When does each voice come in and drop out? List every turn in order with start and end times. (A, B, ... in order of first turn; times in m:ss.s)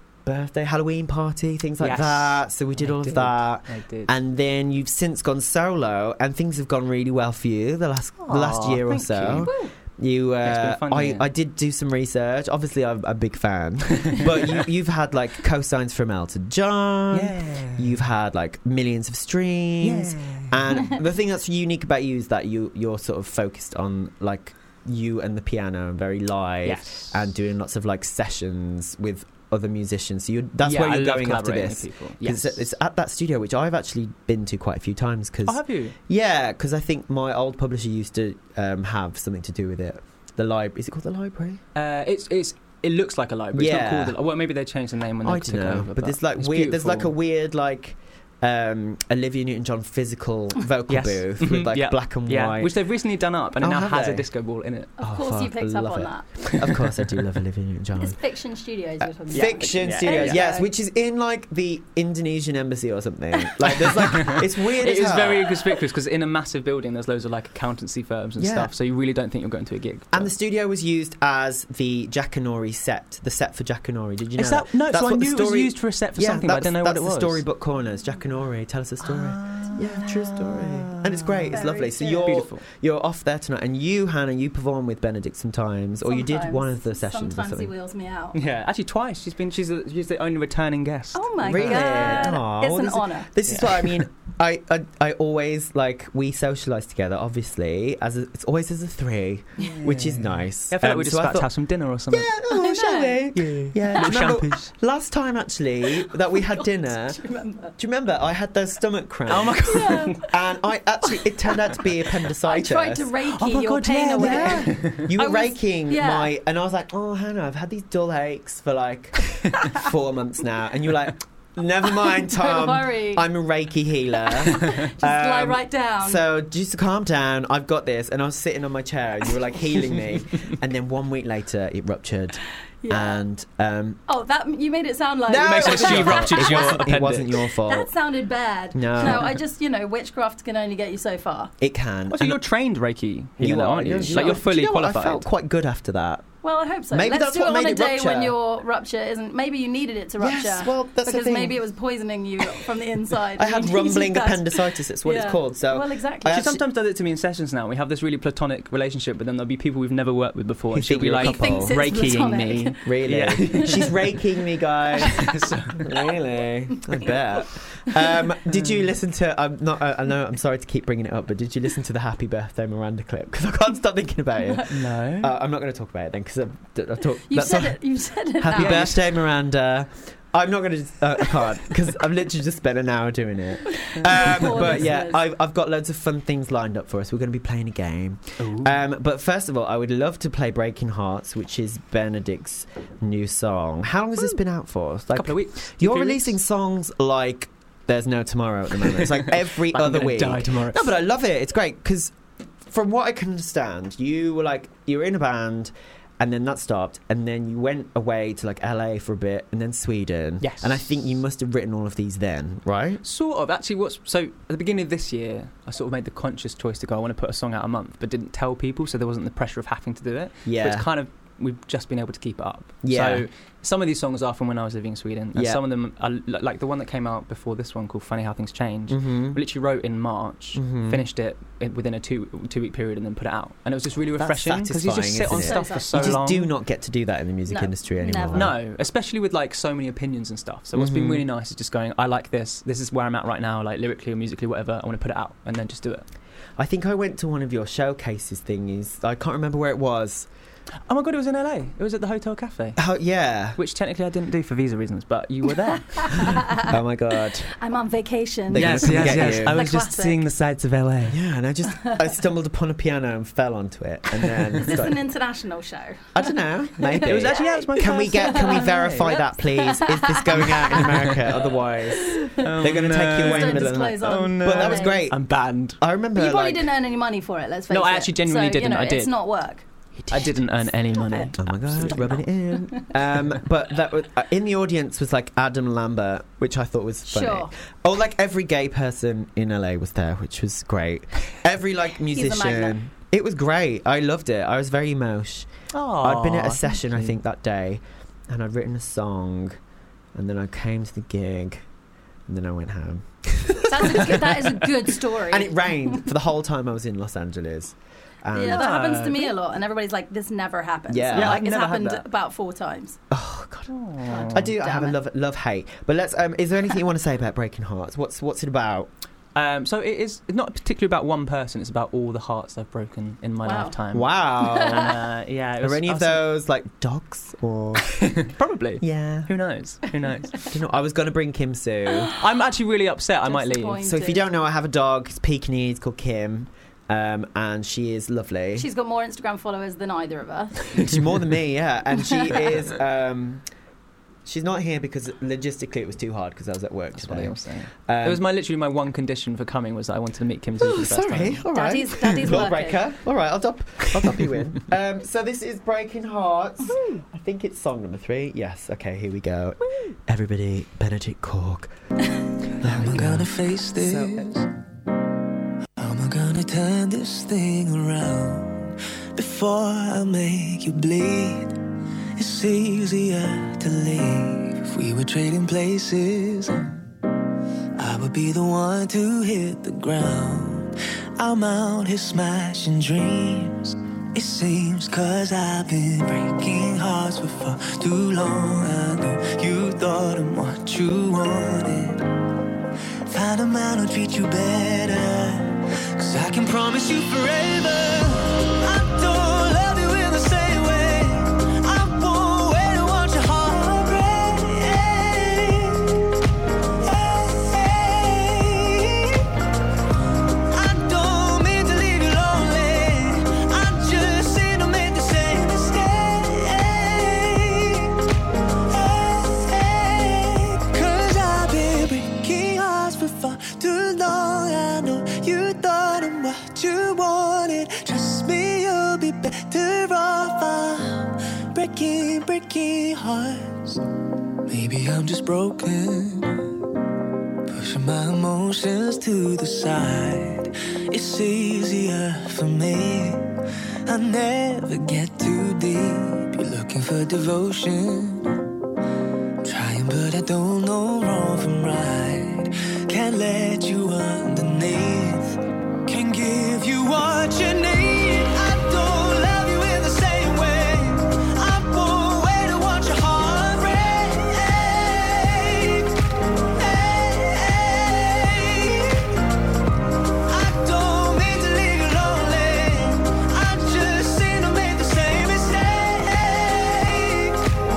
0:00.2-0:41.6 A
0:01.8-0:04.1 B
0:08.2-0:09.5 B
0:09.4-0:09.7 C
0:10.4-0:11.3 B
0:17.1-0:18.0 B
0:19.8-0:20.8 B
0:26.6-0:27.2 B
0:30.6-0:32.7 B
0:35.5-0:36.0 B
0:41.8-0:47.1 B
0:43.5-0:44.2 A
0:45.2-0:52.7 A
0:50.9-0:54.9 B
0:53.6-0:54.3 A
0:55.0-0:58.2 A
0:55.0-0:56.3 C
0:58.0-1:00.7 C
0:59.2-1:05.6 A
0:59.3-1:00.4 B
1:03.9-1:10.3 B
1:08.4-1:08.7 A
1:10.1-1:27.7 A
1:14.4-1:17.4 B
1:19.0-1:21.6 B
1:21.5-1:22.3 C
1:22.2-1:22.6 B
1:26.1-1:28.4 C
1:28.3-1:32.3 B
1:31.2-1:33.3 C
1:31.4-1:41.5 A
1:33.5-1:34.0 B
1:39.6-1:42.4 B
1:42.1-1:47.2 A
1:42.5-1:43.2 C
1:43.3-1:44.7 B
1:46.3-1:47.8 C
1:47.8-1:53.1 A
1:49.3-1:50.2 B
1:49.7-1:50.2 C
1:51.4-1:51.7 C
1:52.4-1:56.3 C
1:53.3-1:55.1 B
1:54.2-2:14.0 A
2:02.2-2:03.3 C
2:04.2-2:06.2 C
2:12.8-2:13.2 C
2:14.1-2:16.9 C
2:15.3-2:17.9 A
2:15.4-2:17.5 B
2:17.7-2:21.5 C
2:18.7-2:19.4 A
2:19.0-2:19.3 B
2:21.6-2:22.4 A
2:22.1-2:25.3 B
2:23.4-2:26.3 A
2:26.4-2:36.4 C
2:26.9-2:28.4 A
2:30.2-2:31.6 A
2:33.4-2:36.6 A
2:36.3-2:44.0 B
2:40.7-2:41.8 A
2:41.2-2:42.8 C
2:42.8-2:45.3 A
2:45.1-2:45.8 B
2:45.8-2:57.8 A
2:48.5-2:48.8 B
2:54.7-2:55.3 B
2:57.3-2:58.9 C
2:58.4-3:33.0 A
2:58.6-2:59.0 B
3:03.8-3:05.2 C
3:08.4-3:08.8 B
3:15.1-3:16.4 B
3:18.9-3:20.9 B
3:30.4-3:30.9 B
3:33.0-3:56.5 B
3:40.4-3:40.9 A
3:42.8-3:43.3 A
3:45.3-3:45.6 A
3:48.9-3:49.4 A
3:50.6-3:51.0 A
3:54.2-3:58.6 A
3:55.3-3:56.2 C
3:57.5-3:58.5 C
3:58.3-4:06.0 B
4:00.8-4:01.2 A
4:06.6-4:10.3 A
4:10.9-4:12.8 B
4:12.8-4:13.6 A
4:13.6-4:16.4 B
4:16.0-4:16.6 C
4:16.5-4:17.5 A
4:17.5-4:20.2 C
4:18.5-4:19.6 A
4:18.6-4:21.2 B
4:21.1-4:25.0 A
4:24.7-4:30.9 C
4:26.1-4:36.7 A
4:27.0-4:29.1 B
4:30.6-4:31.4 B
4:32.1-4:32.4 C
4:32.3-4:35.8 B
4:33.3-4:35.0 C
4:36.2-4:39.7 C
4:37.7-4:39.1 B
4:40.0-4:42.2 B
4:40.1-4:40.4 A
4:41.4-4:59.6 A
4:42.5-4:42.8 C
4:47.1-4:47.5 C
4:52.1-4:52.8 C
4:55.7-4:57.1 B
5:00.2-5:01.6 A
5:02.3-5:08.9 A
5:03.7-5:06.1 C
5:08.3-5:13.0 C
5:08.4-5:09.3 B
5:10.9-5:11.5 A
5:11.1-5:12.0 B
5:13.1-5:18.9 A
5:13.7-5:14.5 B
5:14.1-5:15.0 C
5:19.4-5:26.2 B
5:23.4-5:23.8 C
5:23.9-5:25.0 A
5:25.6-5:28.2 A
5:27.9-5:30.4 B
5:28.8-5:29.3 A
5:30.4-5:32.1 A
5:32.2-5:33.8 B
5:33.3-5:34.2 C
5:33.8-5:38.7 A
5:38.6-5:40.9 C
5:40.8-5:43.4 A
5:44.2-5:47.3 A
5:46.9-5:51.4 B
5:47.9-5:48.2 A
5:50.6-6:01.7 A
5:51.5-5:52.8 C
6:02.6-6:04.3 A
6:02.6-6:03.2 B
6:02.8-6:04.5 D
6:05.8-6:11.6 D
6:12.2-6:16.8 D
6:17.8-6:32.0 D
6:33.1-6:45.9 D
6:46.8-6:49.2 D
6:50.5-6:58.0 D
6:58.7-7:13.8 D
7:14.5-7:16.4 D
7:17.5-7:23.3 D
7:23.9-7:28.3 D
7:29.4-7:45.9 D
7:46.6-7:49.1 D
7:50.3-7:57.4 D